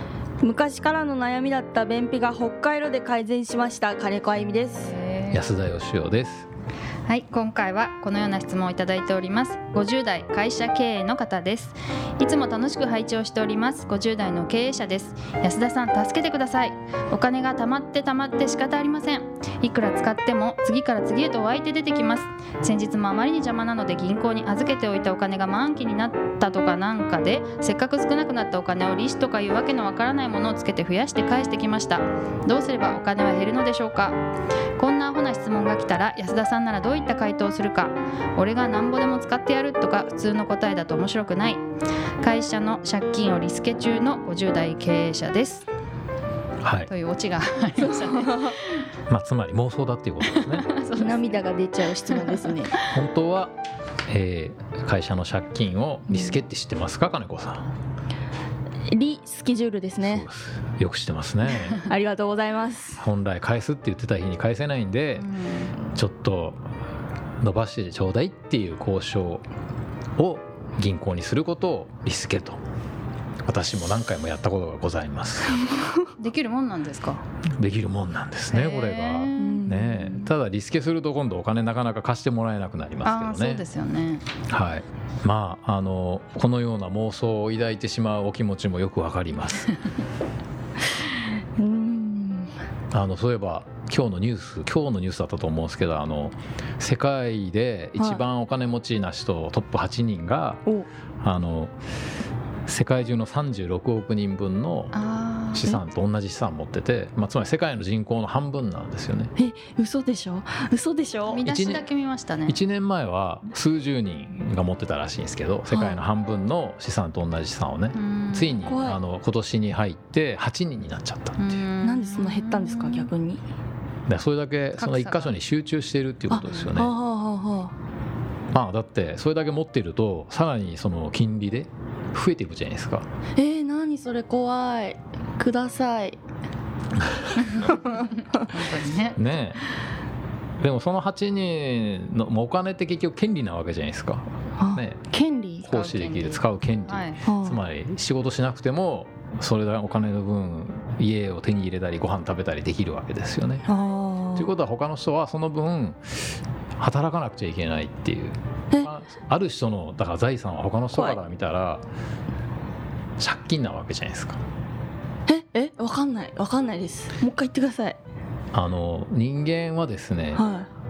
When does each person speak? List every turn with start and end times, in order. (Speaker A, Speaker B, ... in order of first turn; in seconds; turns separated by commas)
Speaker A: 0.4-5.0, Speaker B: 4.8-5.4, Speaker C: 5.3-6.5, Speaker B: 7.0-34.2, Speaker B: 34.8-41.6, Speaker B: 42.2-45.6, Speaker C: 46.6-46.9, Speaker B: 46.9-48.8, Speaker A: 48.0-48.5, Speaker C: 49.1-50.7, Speaker B: 50.2-51.4, Speaker A: 51.0-52.8, Speaker B: 52.1-53.0, Speaker C: 52.8-53.5, Speaker C: 54.1-57.7, Speaker A: 56.1-56.4, Speaker A: 58.9-60.3, Speaker C: 60.0-61.8, Speaker A: 61.7-63.0, Speaker C: 63.0-65.3, Speaker B: 65.2-65.8, Speaker C: 65.9-66.6, Speaker C: 67.4-69.4, Speaker C: 70.2-72.6, Speaker C: 73.5-75.7, Speaker A: 75.6-76.1, Speaker B: 76.2-77.2, Speaker C: 77.6-83.6, Speaker B: 78.5-79.7, Speaker A: 79.4-80.3, Speaker B: 83.0-84.3, Speaker C: 84.5-89.7, Speaker A: 91.1-92.5, Speaker C: 92.9-100.6, Speaker A: 98.0-98.2, Speaker C: 101.2-101.7, Speaker C: 102.7-104.9, Speaker B: 104.9-105.7, Speaker C: 105.5-109.3, Speaker A: 109.3-111.4, Speaker B: 111.2-112.6, Speaker C: 111.4-111.8, Speaker C: 112.5-121.6, Speaker A: 115.7-116.0, Speaker B: 117.9-118.6, Speaker A: 118.6-119.0, Speaker B: 121.4-123.1, Speaker A: 121.8-123.4, Speaker C: 124.1-126.9, Speaker B: 124.8-125.3, Speaker A: 126.3-127.7, Speaker C: 128.5-133.1, Speaker A: 133.3-136.2, Speaker C: 137.0-137.4, Speaker B: 137.4-139.2, Speaker A: 137.6-138.4, Speaker C: 139.2-139.6, Speaker C: 140.6-145.0, Speaker A: 144.6-145.7, Speaker C: 145.6-153.7, Speaker B: 145.6-147.2, Speaker A: 147.2-147.6, Speaker A: 153.7-154.5, Speaker C: 154.3-161.8, Speaker A: 160.9-161.2, Speaker C: 163.2-164.4, Speaker A: 165.3-168.0, Speaker C: 168.5-170.5, Speaker A: 170.3-170.7